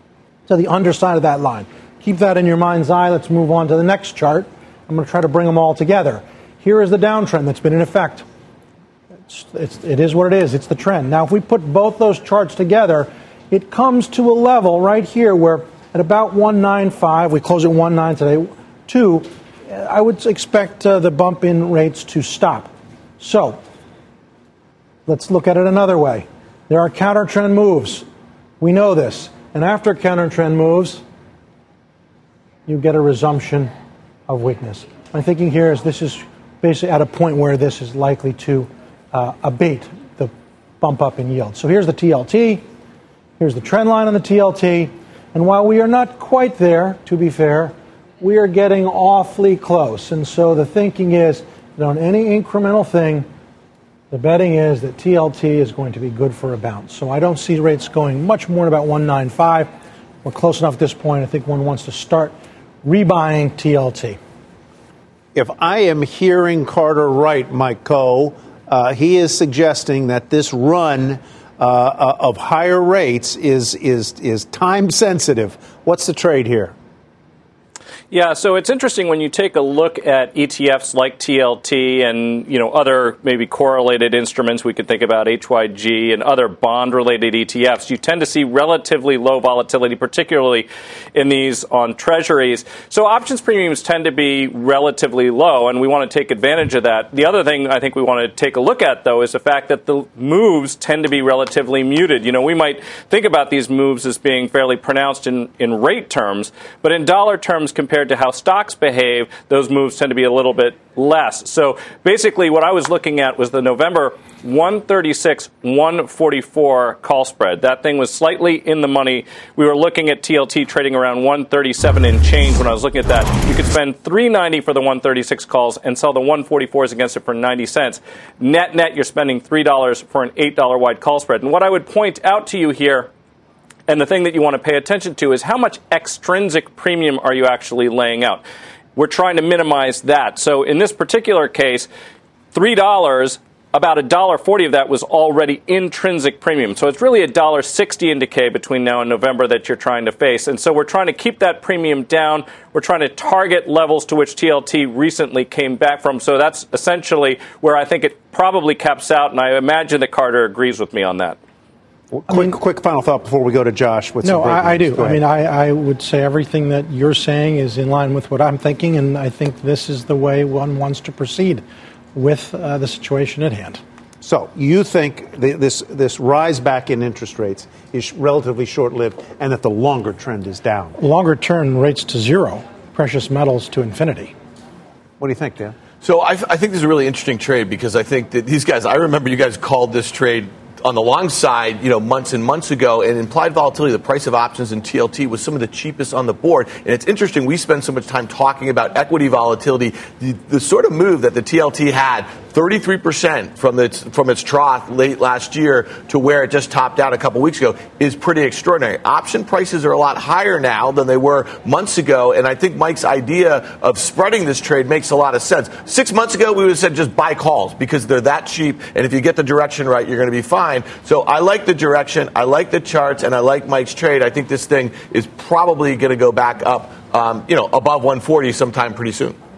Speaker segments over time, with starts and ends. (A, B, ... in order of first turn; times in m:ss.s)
0:00.5-0:08.2 A
0:09.3-0:23.6 A
0:25.1-0:28.0 A
0:28.6-0:31.0 A
0:32.7-0:33.7 A
0:34.3-0:42.6 A
0:43.4-0:53.3 A
0:54.1-0:59.7 A
1:00.2-1:04.2 A
1:05.3-1:16.7 B
1:18.1-2:13.1 C
2:13.9-2:18.4 C
2:19.0-2:21.9 C
2:22.5-2:41.4 C
2:42.1-2:45.2 B
2:42.3-2:42.6 A
2:44.2-2:51.6 A
2:52.2-2:53.8 A
2:54.2-3:01.0 B
3:01.0-3:04.3 A
3:05.2-3:05.8 B
3:06.0-3:49.4 D